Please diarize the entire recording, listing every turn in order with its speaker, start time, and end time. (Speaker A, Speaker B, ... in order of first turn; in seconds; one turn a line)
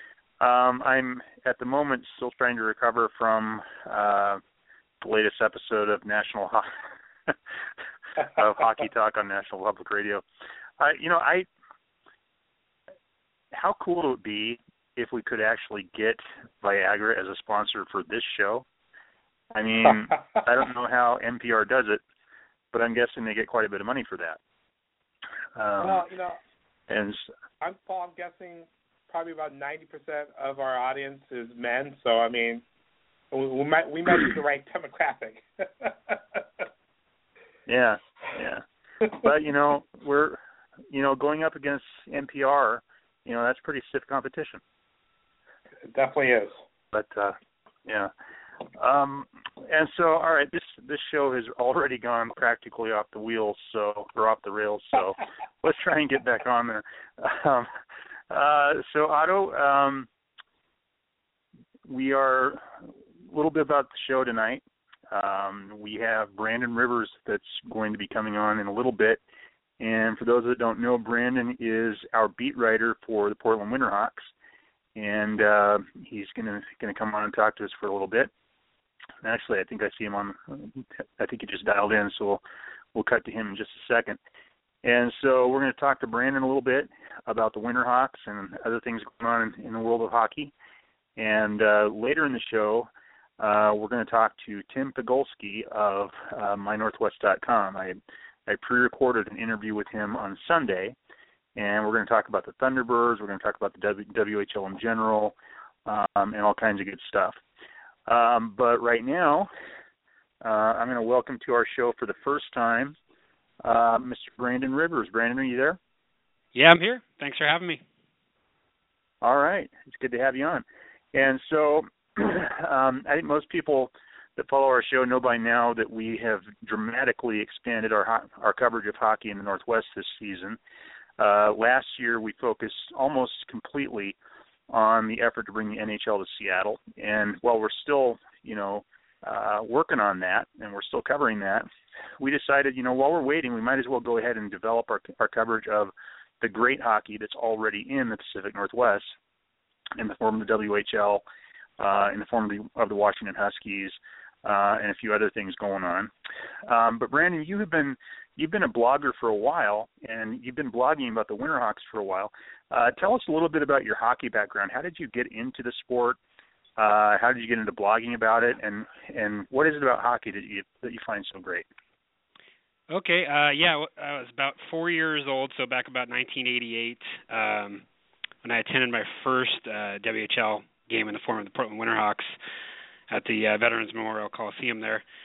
Speaker A: 0.4-4.4
Speaker A: 5.0-6.7
Speaker A: 8.2-10.2
Speaker A: 10.8-11.5
Speaker A: 13.5-18.6
Speaker A: 19.5-22.0
Speaker A: 22.7-24.4
Speaker A: 25.6-26.1
Speaker B: 25.8-26.4
Speaker A: 26.9-27.3
Speaker B: 27.6-32.6
Speaker B: 33.3-36.6
Speaker A: 37.7-44.6
Speaker B: 45.9-46.6
Speaker A: 46.9-48.1
Speaker A: 48.7-57.7
Speaker A: 58.3-60.1
Speaker A: 61.9-69.2
Speaker A: 69.8-74.3
Speaker A: 75.0-78.3
Speaker A: 79.2-82.4
Speaker A: 82.9-84.2
Speaker A: 84.8-90.5
Speaker A: 91.2-101.0
Speaker A: 101.5-107.4
Speaker A: 108.1-109.5
Speaker A: 110.4-112.9
Speaker A: 113.6-115.8
Speaker C: 116.5-117.8
Speaker A: 119.2-130.6
Speaker A: 131.2-134.2
Speaker A: 134.7-141.7
Speaker A: 142.2-149.1
Speaker A: 150.0-151.2
Speaker A: 151.8-156.1
Speaker A: 156.7-166.2
Speaker A: 166.8-171.7
Speaker C: 172.9-177.8
Speaker C: 178.4-182.3
Speaker C: 183.1-185.0